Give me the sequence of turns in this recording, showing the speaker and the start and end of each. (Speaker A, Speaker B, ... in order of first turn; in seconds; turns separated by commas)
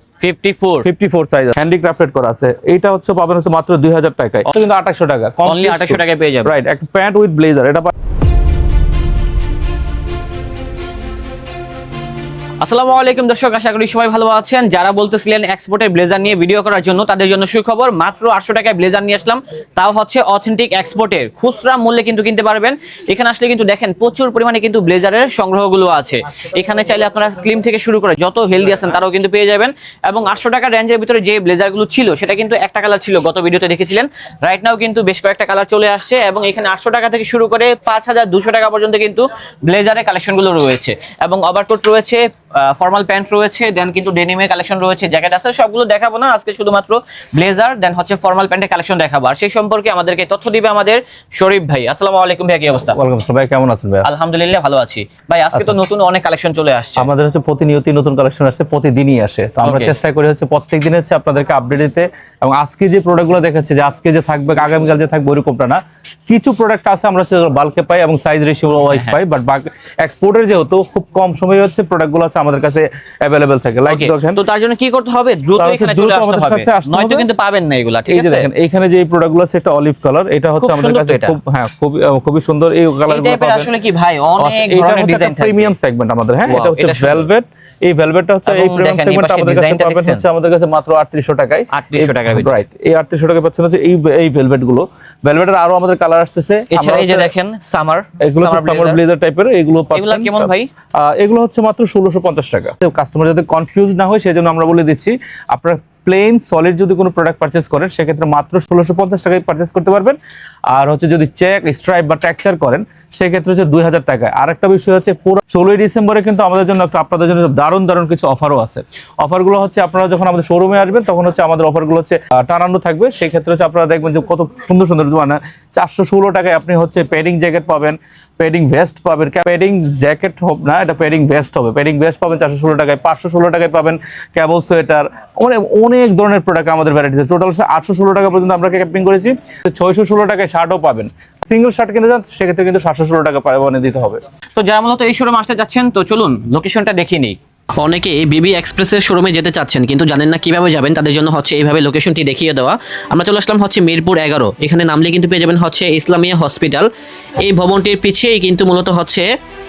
Speaker A: 0.2-0.8, Speaker B: 0.8-7.9, Speaker A: 5.5-6.5, Speaker A: 12.6-53.0, Speaker B: 52.9-54.1, Speaker A: 54.0-57.1, Speaker B: 57.0-74.4, Speaker A: 59.6-59.9, Speaker A: 68.9-69.2, Speaker A: 73.9-78.5, Speaker B: 75.6-77.3, Speaker B: 78.1-83.7, Speaker A: 80.6-81.4, Speaker A: 83.1-85.8, Speaker B: 84.4-97.3, Speaker A: 86.5-87.3, Speaker A: 88.5-90.2, Speaker A: 91.7-92.6, Speaker A: 96.7-99.0, Speaker B: 98.2-110.2, Speaker A: 99.9-100.7, Speaker B: 110.7-144.2, Speaker A: 144.6-147.4, Speaker C: 147.8-156.9, Speaker C: 157.4-159.3